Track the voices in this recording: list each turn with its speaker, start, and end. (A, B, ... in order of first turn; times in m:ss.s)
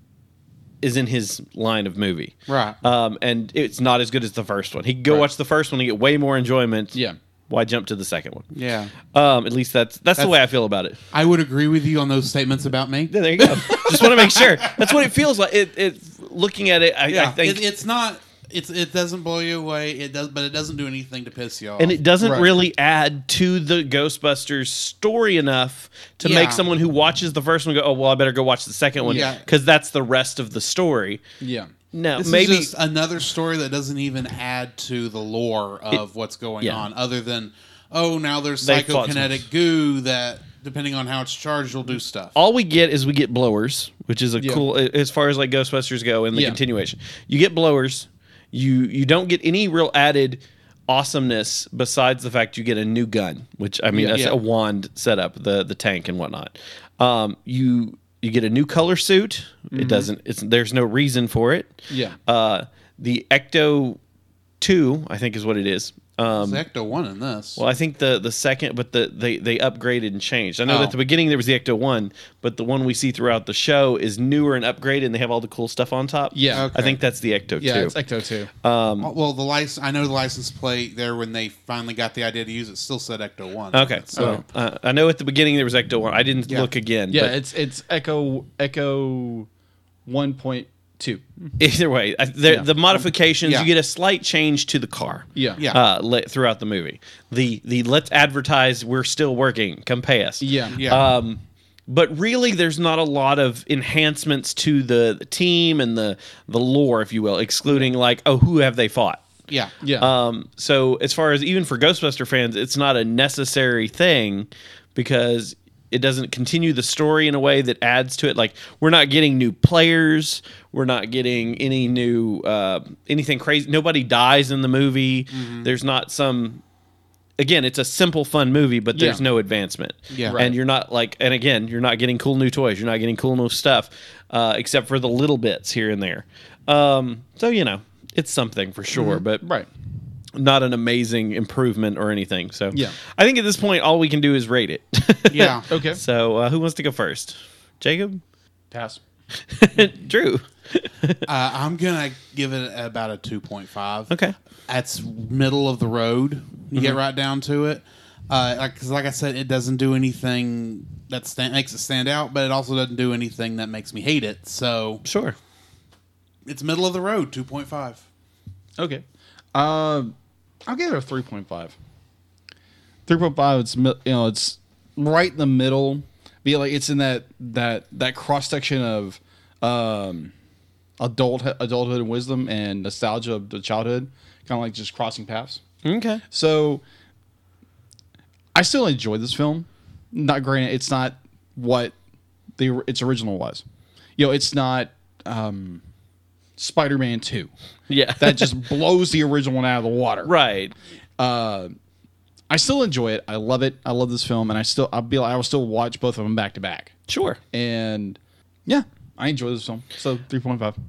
0:00.8-0:07.0 A
0:02.5-0:02.8 B
0:07.5-0:08.5 A
0:08.5-0:08.9 B
0:09.1-0:11.0 A
0:11.1-0:14.7 B
0:13.1-0:17.6 A
0:17.1-0:22.0 B
0:21.8-0:31.2 A
0:22.2-0:22.5 C
0:26.2-0:26.6 B
0:29.0-0:29.4 B
0:31.4-0:31.7 C
0:31.9-0:32.7 A
0:32.2-0:42.3 B
0:36.6-0:36.9 A
0:38.6-0:39.4 A
0:42.3-1:04.0 A
0:44.4-0:44.6 C
0:46.3-0:46.6 C
0:53.9-0:54.2 C
0:59.7-1:00.1 C
1:01.9-1:02.2 C
1:04.6-1:06.6 A
1:06.3-1:07.6 B
1:07.6-1:17.9 A
1:10.7-1:10.9 B
1:16.3-1:16.7 C
1:16.5-1:17.0 B
1:17.6-1:18.5 C
1:18.6-1:19.1 A
1:19.0-1:24.4 B
1:23.7-1:27.3 A
1:24.2-1:24.4 C
1:27.1-1:29.5 C
1:30.0-1:31.5 C
1:31.6-1:49.2 A
1:35.3-1:35.6 C
1:40.4-1:40.8 C
1:40.7-1:41.0 B
1:49.5-1:49.7 B
1:49.8-1:50.1 C
1:50.0-2:06.6 A
2:05.3-2:05.7 B
2:07.4-2:19.4 A
2:08.9-2:09.2 C
2:10.1-2:10.4 B
2:10.3-2:10.6 C
2:19.0-2:19.7 C
2:20.3-2:28.2 A
2:25.3-2:25.7 B
2:25.7-2:26.0 C
2:28.7-2:29.0 C
2:29.4-2:31.2 A
2:31.2-2:34.1 B
2:34.1-2:34.3 A
2:34.7-2:45.0 B
2:45.0-2:45.4 A
2:46.4-2:48.0 B
2:48.8-2:50.1 C
2:50.6-2:51.7 C
2:53.1-3:00.3 C
3:01.0-3:05.6 C
3:05.8-3:06.2 A
3:06.3-3:06.8 C
3:08.5-3:11.9 C
3:12.6-3:13.6 C
3:14.2-3:15.8 C
3:16.6-3:17.5 C
3:17.9-3:18.5 A
3:18.2-3:20.3 C
3:20.2-3:20.7 A
3:21.2-3:21.8 C
3:22.5-3:26.9 C
3:27.1-3:27.4 A
3:27.5-3:30.8 C